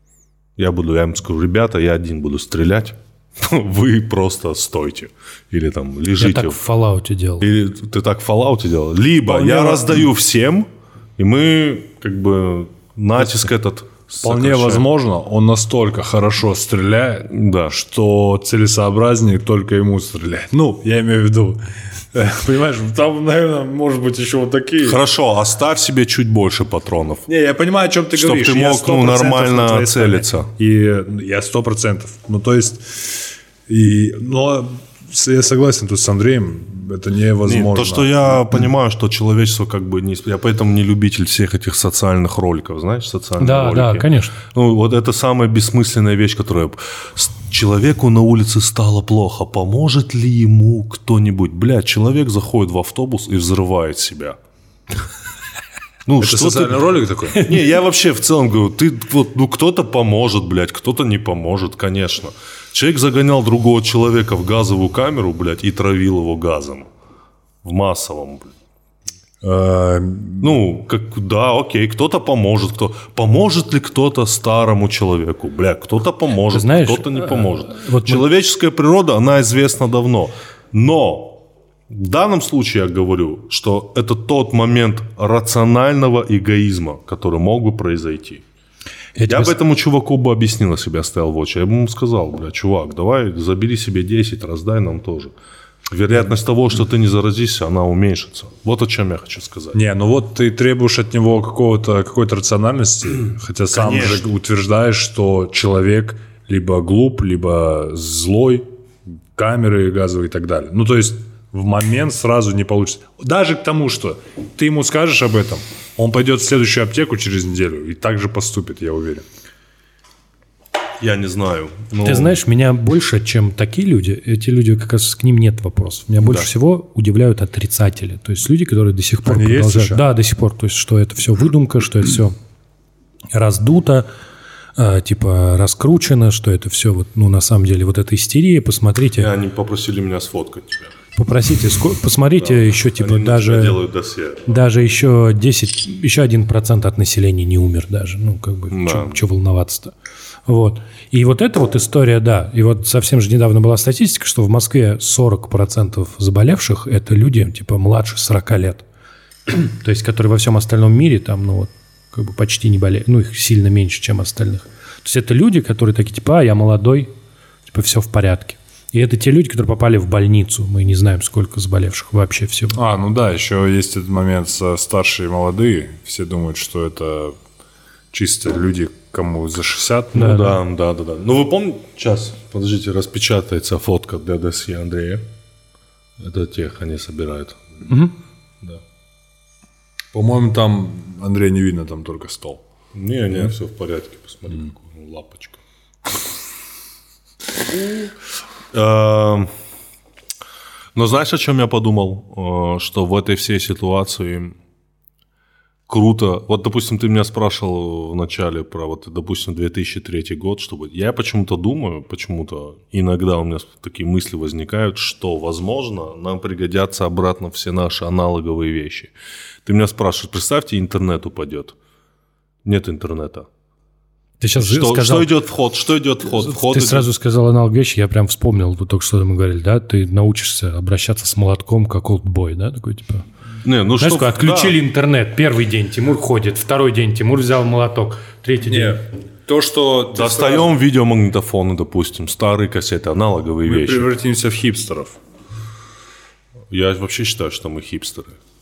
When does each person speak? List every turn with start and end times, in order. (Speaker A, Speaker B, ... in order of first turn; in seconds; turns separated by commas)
Speaker A: 0.6-6.6, Speaker B: 6.2-7.5, Speaker A: 7.4-14.9, Speaker C: 9.3-10.1, Speaker C: 14.2-25.0, Speaker A: 17.3-17.7, Speaker A: 24.8-27.3, Speaker C: 27.3-38.4, Speaker A: 28.1-30.5, Speaker A: 37.4-54.4, Speaker B: 43.4-44.4, Speaker A: 56.1-66.9, Speaker C: 56.2-57.5, Speaker A: 67.6-68.5, Speaker C: 69.4-70.6, Speaker A: 70.4-81.4, Speaker B: 76.5-78.3, Speaker A: 81.9-88.4, Speaker B: 89.2-89.6, Speaker A: 89.3-95.3, Speaker A: 95.9-99.8, Speaker C: 99.7-108.7, Speaker A: 103.7-104.2, Speaker C: 109.3-119.2, Speaker A: 121.0-122.4, Speaker B: 122.0-132.3, Speaker A: 126.2-126.5, Speaker C: 129.2-130.1, Speaker B: 133.3-134.1, Speaker B: 134.8-139.3, Speaker A: 139.2-141.0, Speaker B: 141.2-143.8, Speaker A: 142.4-144.5, Speaker B: 144.5-149.9, Speaker A: 148.7-149.2, Speaker B: 150.5-158.8, Speaker B: 159.5-167.1, Speaker B: 167.7-172.8, Speaker C: 172.7-177.4, Speaker C: 178.1-180.4, Speaker A: 180.1-185.3, Speaker B: 180.2-180.6, Speaker A: 186.2-187.9, Speaker B: 187.9-188.2, Speaker C: 190.1-192.6, Speaker A: 192.9-195.6, Speaker A: 198.7-199.5, Speaker A: 200.9-204.6, Speaker A: 205.9-219.1, Speaker A: 219.7-221.8, Speaker A: 222.7-223.5, Speaker B: 224.4-225.3, Speaker A: 224.6-227.1, Speaker B: 226.4-233.3, Speaker A: 233.6-234.8, Speaker B: 234.0-239.0, Speaker C: 238.7-240.7, Speaker A: 240.1-244.1, Speaker C: 243.7-245.2, Speaker A: 246.7-248.4